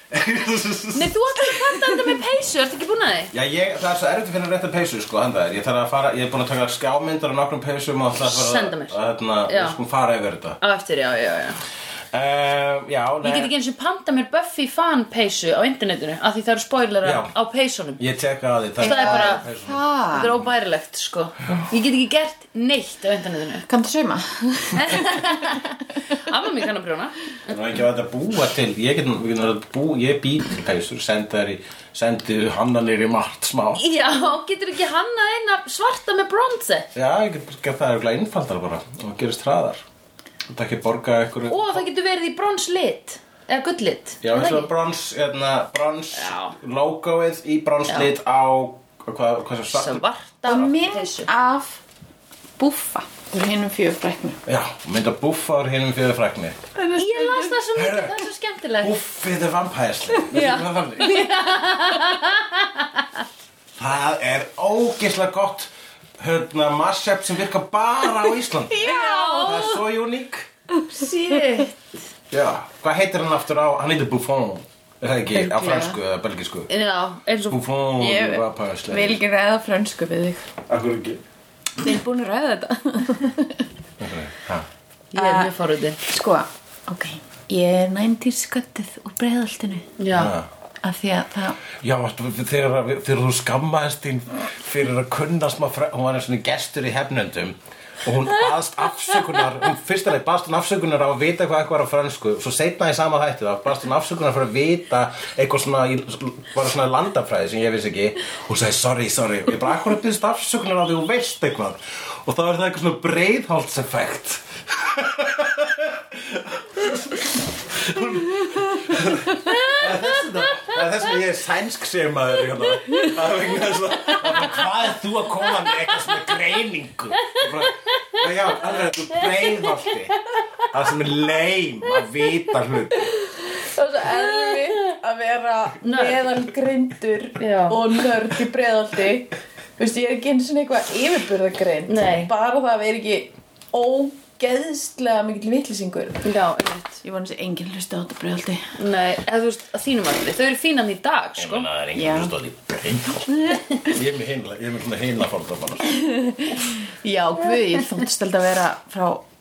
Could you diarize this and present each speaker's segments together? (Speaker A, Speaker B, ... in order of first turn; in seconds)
Speaker A: 0.1-1.1, 3.3-10.6, 12.1-13.5, 17.0-17.3, 18.0-19.8, 27.5-33.9, 36.9-39.8, 40.5-41.8, 44.2-50.0, 54.5-56.6, 57.7-58.1, 58.8-61.3, 63.8-70.5, 72.3-76.7, 77.5-79.2, 80.7-81.2, 84.0-84.7, 90.1-90.5, 91.8-130.2, 130.7-133.1, 151.4-155.9
Speaker B: 0.9-3.3, 8.2-8.9, 9.5-9.8, 10.6-11.6, 13.2-18.0, 18.8-19.4, 20.1-23.7, 24.8-27.1, 33.8-36.9, 41.5-44.7, 46.1-46.6, 49.7-51.3, 57.0-58.9, 60.3-63.0, 68.8-69.8, 70.9-71.8, 76.7-77.6, 85.1-86.0, 90.0-90.3, 119.5-119.9, 129.2-130.7, 134.1-134.8, 135.8-136.4, 137.4-137.8, 141.9-142.3, 146.2-147.0, 148.8-151.7
Speaker C: 1.7-2.0, 18.8-20.3, 23.7-25.6, 50.5-51.8, 52.6-54.4, 56.8-57.6, 68.7-69.6, 70.8-71.7, 75.3-76.0, 78.0-80.5, 81.8-83.6, 85.1-89.9, 90.8-91.6, 132.9-146.3, 147.0-148.7, 151.9-152.3, 153.3-153.6, 155.9-159.2